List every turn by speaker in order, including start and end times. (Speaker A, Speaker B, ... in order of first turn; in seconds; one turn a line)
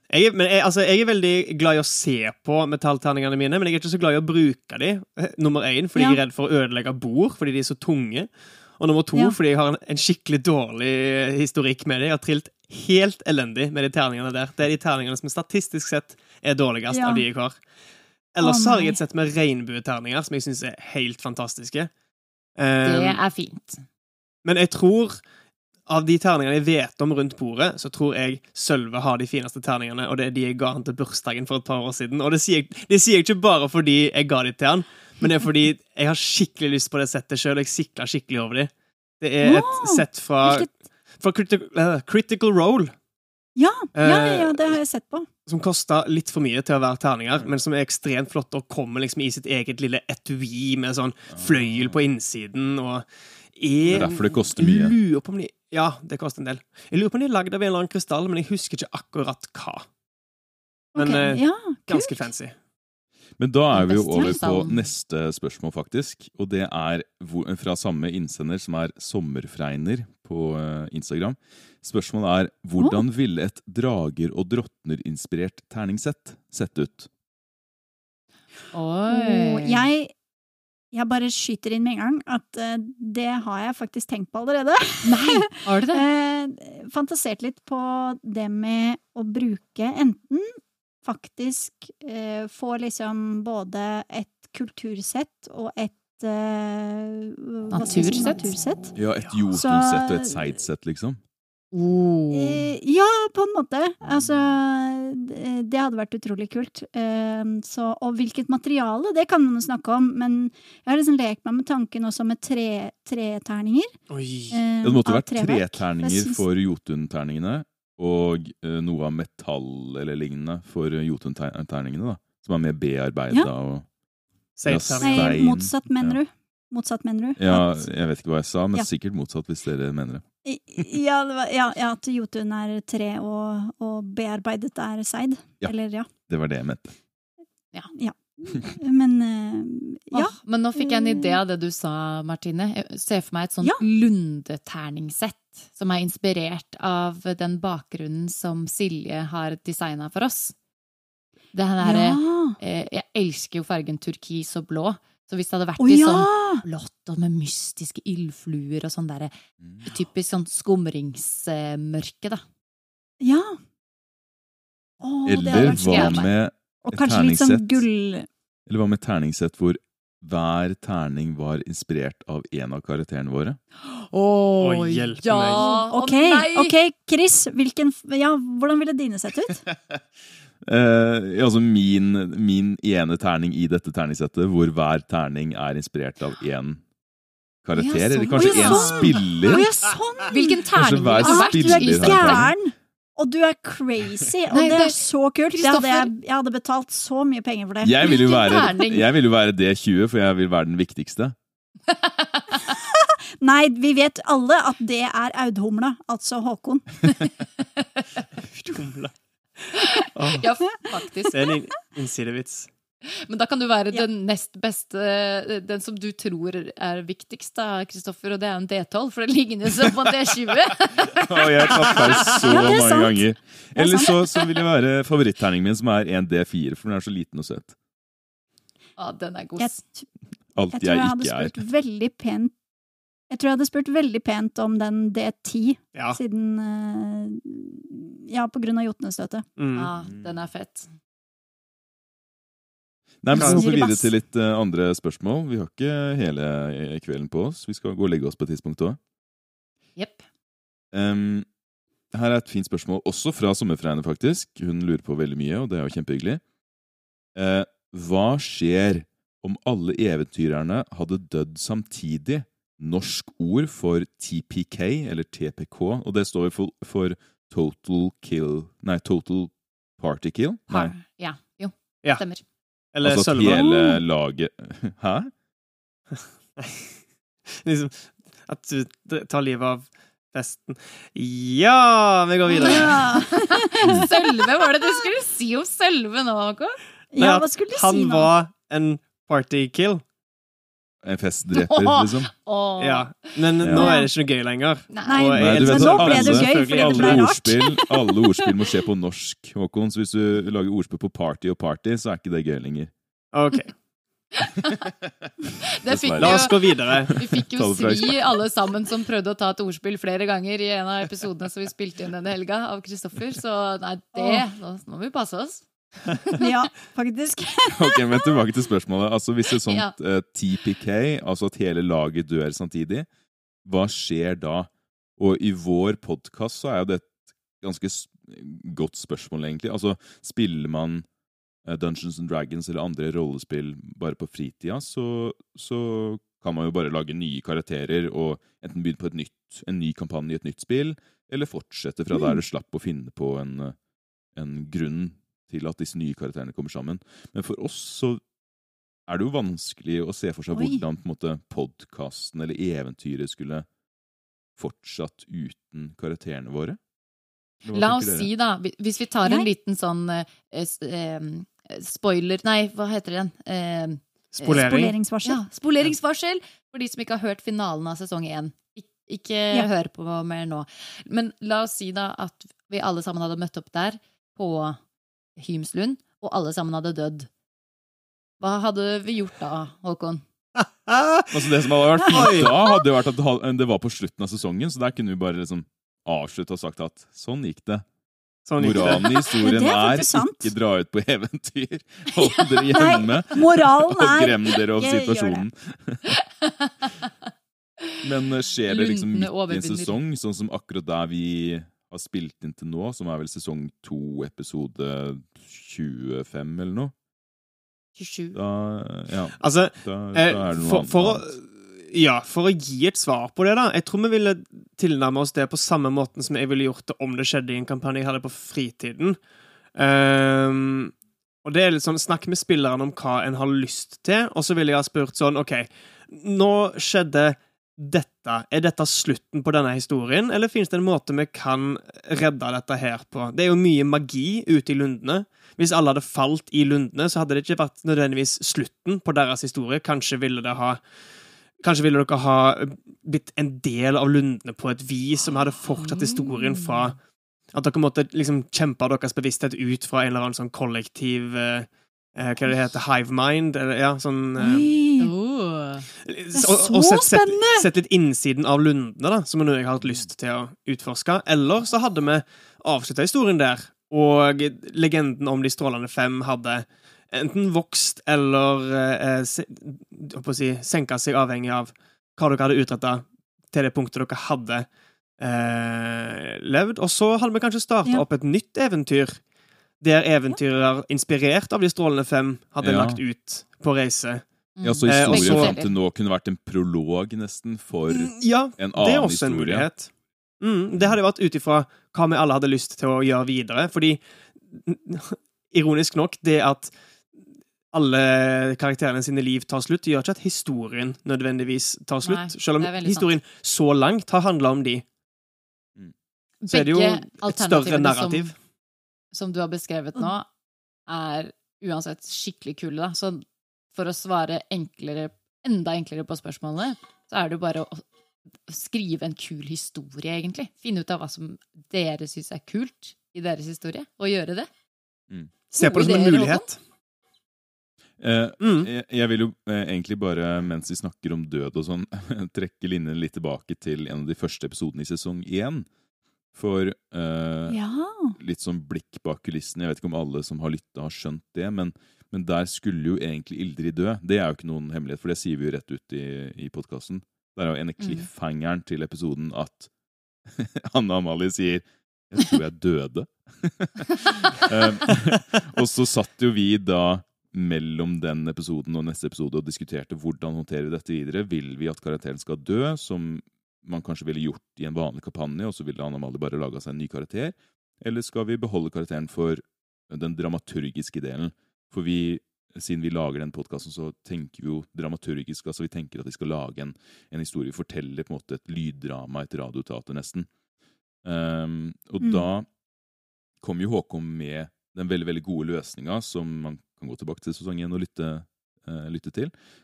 Speaker A: 0.1-17.6
Speaker B: 16.9-17.2
Speaker A: 18.3-21.9
Speaker B: 18.4-19.0
Speaker A: 22.6-23.2
Speaker C: 22.8-23.8
Speaker A: 24.4-25.2
Speaker A: 25.9-43.0
Speaker B: 39.4-40.7
Speaker B: 43.6-45.3
Speaker A: 44.0-44.8
Speaker A: 45.5-59.9
Speaker D: 51.3-52.0
Speaker D: 53.9-55.0
Speaker B: 61.0-62.3
Speaker A: 61.0-62.5
Speaker D: 63.4-77.1
Speaker C: 63.7-64.9
Speaker B: 72.8-73.0
Speaker C: 78.7-79.9
Speaker B: 79.1-80.1
Speaker B: 80.9-99.0
Speaker C: 85.0-86.1
Speaker C: 97.7-98.5
Speaker D: 99.0-101.2
Speaker B: 99.5-100.5
Speaker C: 101.7-102.7
Speaker B: 102.3-114.0
Speaker A: 114.1-114.6
Speaker B: 114.5-116.4
Speaker D: 114.8-123.9
Speaker A: 124.6-125.4
Speaker D: 124.7-126.2
Speaker B: 125.0-127.9
Speaker D: 127.4-130.2
Speaker B: 130.4-136.1
Speaker D: 136.3-136.9
Speaker B: 137.9-141.4
Speaker C: 140.1-150.6
Speaker C: 151.5-162.4
Speaker B: 151.8-152.6
Speaker B: 155.8-156.6
Speaker D: 159.6-159.9
Speaker B: 163.2-163.6
Speaker B: 165.0-166.3
Speaker D: 165.2-167.8
Speaker C: 165.5-166.3
Speaker B: 166.8-168.3
Speaker D: 168.7-173.6
Speaker C: 173.8-176.8
Speaker A: 174.6-175.7
Speaker B: 175.6-179.6
Speaker D: 179.7-180.0
Speaker D: 180.6-186.8
Speaker D: 187.6-189.7
Speaker C: 187.7-189.6
Speaker B: 188.3-190.6
Speaker C: 190.2-192.5
Speaker D: 190.7-192.5
Speaker B: 191.2-198.6
Speaker C: 194.5-196.1
Speaker D: 197.8-201.4
Speaker C: 198.0-199.1
Speaker C: 201.9-202.8
Speaker B: 202.8-207.0
Speaker C: 207.2-208.2
Speaker A: 208.6-209.1
Speaker C: 209.7-211.5
Speaker A: 210.2-210.4
Speaker A: 211.3-212.7
Speaker C: 213.0-222.5
Speaker D: 221.1-227.8
Speaker A: 221.7-222.3
Speaker B: 222.4-224.2
Speaker C: 229.0-229.8
Speaker B: 229.6-230.1
Speaker D: 230.6-231.6
Speaker B: 230.7-232.5
Speaker B: 233.3-239.4
Speaker A: 239.6-239.9
Speaker C: 239.7-240.9
Speaker D: 240.0-240.3
Speaker D: 243.2-249.0
Speaker A: 243.3-243.7
Speaker B: 243.4-244.1
Speaker C: 250.0-250.2
Speaker D: 250.9-251.5
Speaker D: 252.1-256.4
Speaker D: 257.4-270.9
Speaker C: 270.7-272.4
Speaker A: 272.9-273.7
Speaker D: 273.0-275.3
Speaker B: 273.5-274.0
Speaker A: 276.6-276.9
Speaker A: 277.6-283.1
Speaker B: 282.5-284.4
Speaker C: 282.6-286.8
Speaker B: 287.1-288.3
Speaker A: 287.2-290.0
Speaker D: 291.0-292.3
Speaker C: 291.5-293.4
Speaker A: 292.8-297.3
Speaker D: 293.6-293.9
Speaker B: 293.8-294.1
Speaker C: 294.9-295.4
Speaker B: 295.1-297.9
Speaker D: 295.4-302.9
Speaker A: 303.3-303.7
Speaker C: 304.4-304.9
Speaker C: 305.6-315.6
Speaker D: 305.8-308.4
Speaker A: 306.2-307.1
Speaker B: 314.1-314.4
Speaker B: 316.4-318.4
Speaker D: 317.7-323.1
Speaker C: 319.7-319.9
Speaker D: 323.6-331.1
Speaker D: 331.6-343.8
Speaker B: 342.1-342.4
Speaker D: 344.4-348.2
Speaker D: 349.1-353.7
Speaker B: 350.5-350.8
Speaker D: 354.6-356.8
Speaker D: 357.6-358.3
Speaker C: 357.7-374.8
Speaker A: 364.3-364.9
Speaker B: 364.5-365.4
Speaker C: 375.4-377.3
Speaker C: 378.4-380.2
Speaker A: 380.6-382.6
Speaker D: 381.3-387.9
Speaker A: 388.5-389.3
Speaker D: 388.6-396.2
Speaker B: 388.9-390.5
Speaker B: 392.6-395.5
Speaker C: 396.4-397.1
Speaker D: 398.0-406.9
Speaker C: 398.7-400.0
Speaker C: 408.0-408.4
Speaker D: 408.3-411.3
Speaker A: 409.4-419.2
Speaker A: 419.8-440.8
Speaker A: 441.6-447.0
Speaker C: 445.8-446.9
Speaker A: 447.5-454.7
Speaker B: 454.4-455.1
Speaker C: 455.0-455.9
Speaker A: 456.1-474.7
Speaker B: 456.3-457.7
Speaker A: 475.2-479.2
Speaker A: 479.8-484.2
Speaker D: 482.6-483.0
Speaker C: 484.6-485.8
Speaker D: 484.6-489.7
Speaker A: 484.9-485.6
Speaker A: 487.9-496.7
Speaker A: 497.7-504.9
Speaker C: 502.0-503.1
Speaker C: 506.4-508.3
Speaker A: 506.5-508.3
Speaker C: 509.1-510.3
Speaker C: 510.9-517.9
Speaker C: 518.5-524.5
Speaker A: 525.5-526.6
Speaker C: 525.6-526.5
Speaker D: 528.0-535.7
Speaker A: 528.4-528.7
Speaker D: 536.3-537.6
Speaker B: 537.5-538.2
Speaker D: 538.2-549.7
Speaker C: 547.8-548.1
Speaker D: 550.3-580.3
Speaker D: 581.0-582.5
Speaker B: 582.0-582.2
Speaker D: 583.4-589.3